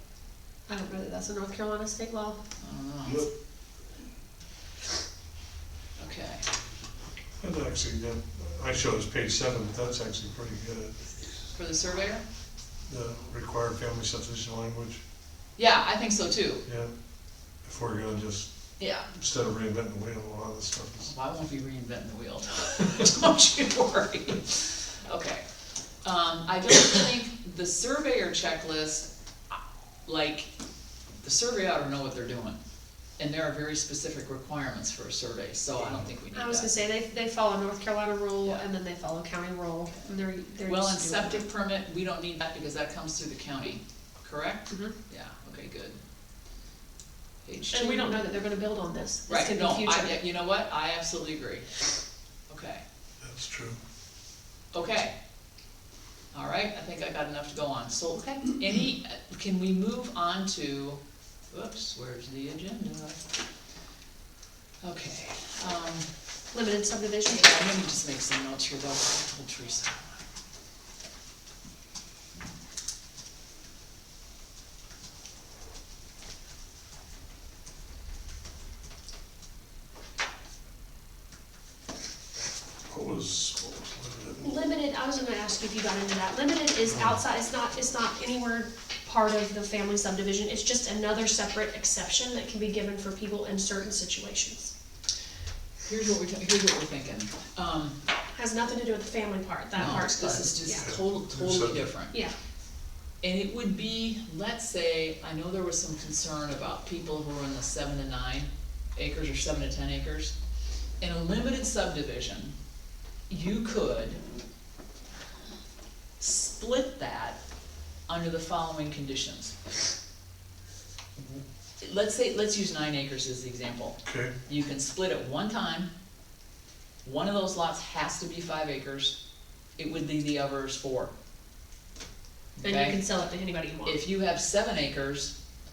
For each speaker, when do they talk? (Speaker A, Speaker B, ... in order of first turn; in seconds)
Speaker A: 0.7-2.4, 36.3-41.4, 47.7-50.1, 66.5-67.6, 84.4-94.7, 98.3-100.9, 132.6-134.0
Speaker B: 2.6-3.3, 6.0-6.4, 11.5-12.2, 15.6-16.6, 18.8-19.1, 21.0-25.4, 26.0-30.5, 31.2-32.6, 33.2-36.7, 40.6-46.0, 47.4-48.2, 49.3-51.7, 52.5-52.8, 54.7-55.1, 56.3-61.0, 61.5-63.2, 64.8-66.1, 67.2-70.2, 95.8-98.0, 99.7-102.2, 103.2-110.3, 111.0-112.5, 113.3-114.2, 116.2-117.4, 118.1-119.5, 121.2-125.9, 127.0-129.2, 129.8-131.1, 132.6-133.0, 133.8-135.3
Speaker C: 7.4-10.9, 12.9-15.0, 16.6-16.9, 17.6-18.5, 19.1-21.1, 35.7-36.1, 53.2-53.8, 82.9-84.6, 86.8-87.2, 100.8-101.9, 124.0-124.3